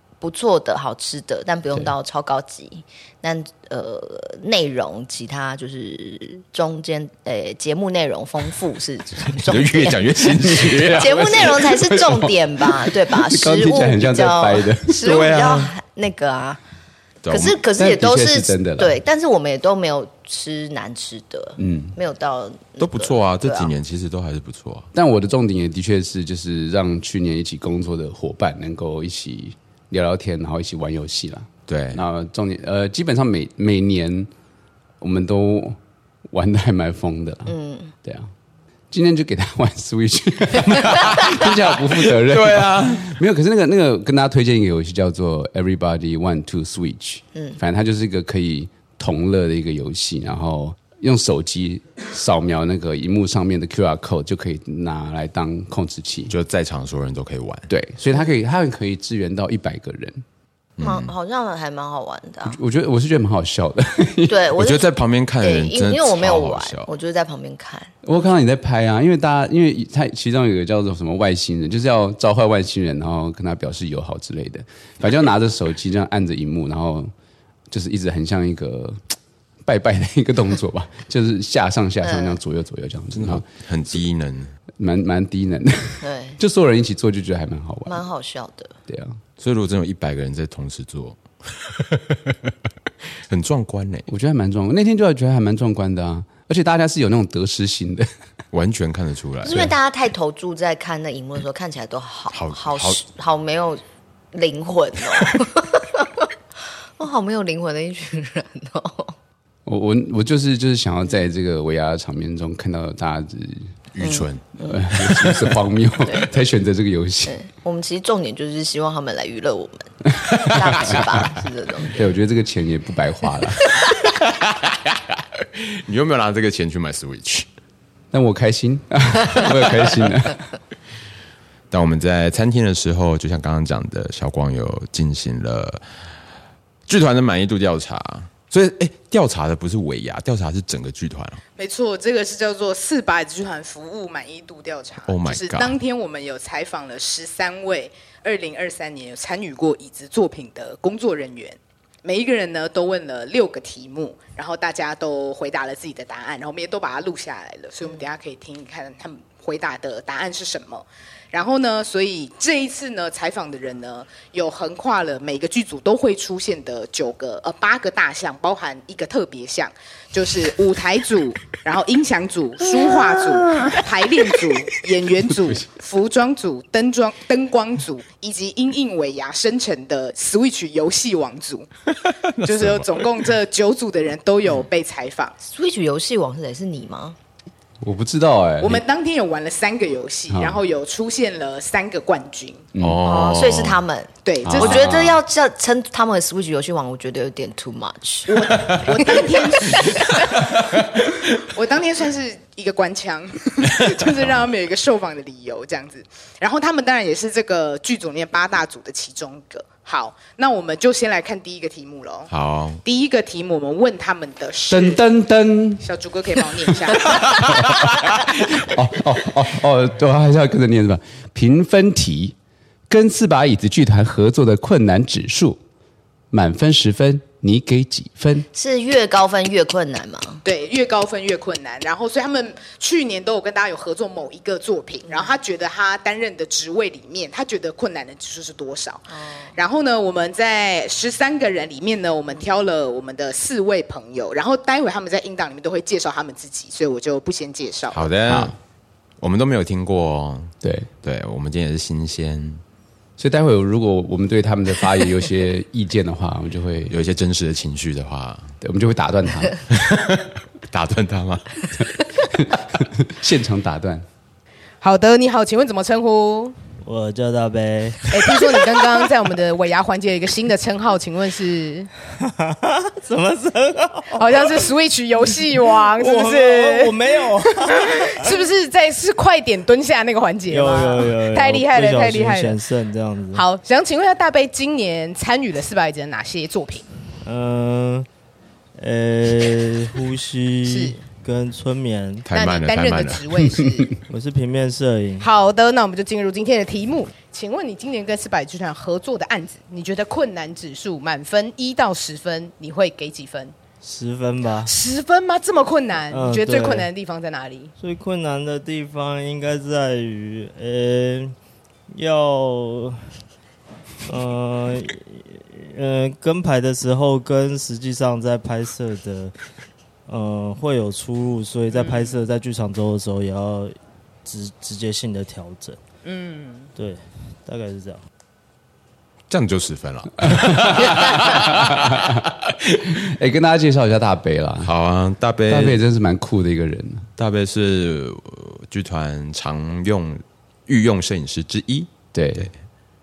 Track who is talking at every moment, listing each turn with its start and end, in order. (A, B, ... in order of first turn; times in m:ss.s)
0:00.2-0:10.0 A
0:09.4-0:11.5 B
0:10.4-0:15.0 C
0:11.0-0:16.6 A
0:15.0-0:15.7 B
0:17.2-0:17.6 B
0:17.3-0:23.7 A
0:17.8-0:18.9 C
0:21.6-0:22.0 C
0:22.8-0:24.9 B
0:24.9-0:34.3 C
0:31.7-0:32.0 B
0:35.0-0:35.8 C
0:36.3-0:38.3 C
0:37.5-0:37.9 A
0:38.9-0:56.3 C
0:40.7-0:41.5 B
0:42.1-0:43.2 B
0:56.3-0:57.7 B
0:57.7-1:00.2 C
1:00.8-1:01.1 B
1:00.8-1:02.6 A
1:02.5-1:04.4 C
1:04.3-1:04.9 A
1:04.6-1:06.9 B
1:05.4-1:07.9 A
1:08.0-1:17.1 C
1:17.7-1:19.1 C
1:19.7-1:23.5 C
1:22.0-1:22.4 A
1:23.1-1:24.5 B
1:24.8-1:28.0 C
1:26.0-1:26.4 A
1:27.9-1:28.8 A
1:28.9-1:29.2 C
1:29.4-1:32.5 B
1:33.2-1:34.1 B
1:34.1-1:38.1 C
1:38.5-1:39.7 B
1:39.4-1:43.8 A
1:42.3-1:43.0 B
1:44.3-1:46.3 A
1:47.0-1:49.2 A
1:49.7-1:53.8 C
1:53.9-1:54.5 B
1:54.0-1:54.7 A
1:54.6-1:57.4 C
1:57.3-2:02.0 A
2:00.5-2:01.0 C
2:01.9-2:03.7 C
2:04.2-2:07.5 B
2:08.1-2:10.4 C
2:11.7-2:15.8 B
2:16.9-2:21.4 B
2:21.6-3:01.7 D
2:25.1-2:25.8 B
3:02.4-3:03.0 B
3:02.4-3:05.3 D
3:05.4-3:07.2 A
3:07.8-3:08.8 C
3:08.6-3:12.6 D
3:10.3-3:10.6 C
3:12.8-3:13.0 C
3:12.8-3:13.8 B
3:13.0-3:19.2 A
3:14.2-3:14.9 D
3:14.4-3:15.2 C
3:18.3-3:20.5 D
3:21.4-3:32.3 D
3:32.3-3:32.8 B
3:32.8-3:35.0 D
3:34.7-3:35.8 C
3:35.8-3:37.1 D
3:37.4-3:42.4 C
3:42.9-3:45.6 C
3:46.3-3:48.5 C
3:48.5-3:50.4 A
3:50.4-3:59.0 D
3:59.2-3:59.5 A
3:59.6-4:08.1 D
4:07.9-4:08.6 B
4:08.3-4:08.5 C
4:09.2-4:12.6 B
4:10.6-4:10.9 C
4:13.2-4:17.0 C
4:16.9-4:18.5 B
4:18.6-4:19.6 C
4:19.7-4:21.5 B
4:22.3-4:24.1 C
4:24.8-4:26.6 D
4:26.8-4:28.6 E
4:28.1-4:31.9 D
4:32.1-4:34.7 E
4:34.2-4:42.6 D
4:35.3-4:38.4 E
4:40.5-4:43.4 E
4:43.3-4:46.9 D
4:47.2-4:48.1 E
4:48.8-4:52.3 E
4:50.6-4:51.0 D
4:52.3-4:53.3 B
4:52.3-4:54.0 D
4:54.1-4:55.3 E
4:55.2-5:03.6 D
5:03.8-5:04.7 E
5:04.6-5:07.7 D
5:06.1-5:06.9 E
5:07.8-5:11.4 E
5:11.9-5:13.1 E
5:14.1-5:19.4 E
5:20.1-5:25.8 E
5:21.7-5:22.2 D
5:26.0-5:26.7 D
5:26.8-5:28.0 E
5:29.3-5:32.8 B
5:30.4-5:32.2 C
5:33.0-5:34.7 C
5:34.6-5:35.8 B
5:35.5-5:37.1 C
5:37.2-5:42.5 B
5:42.1-5:42.5 C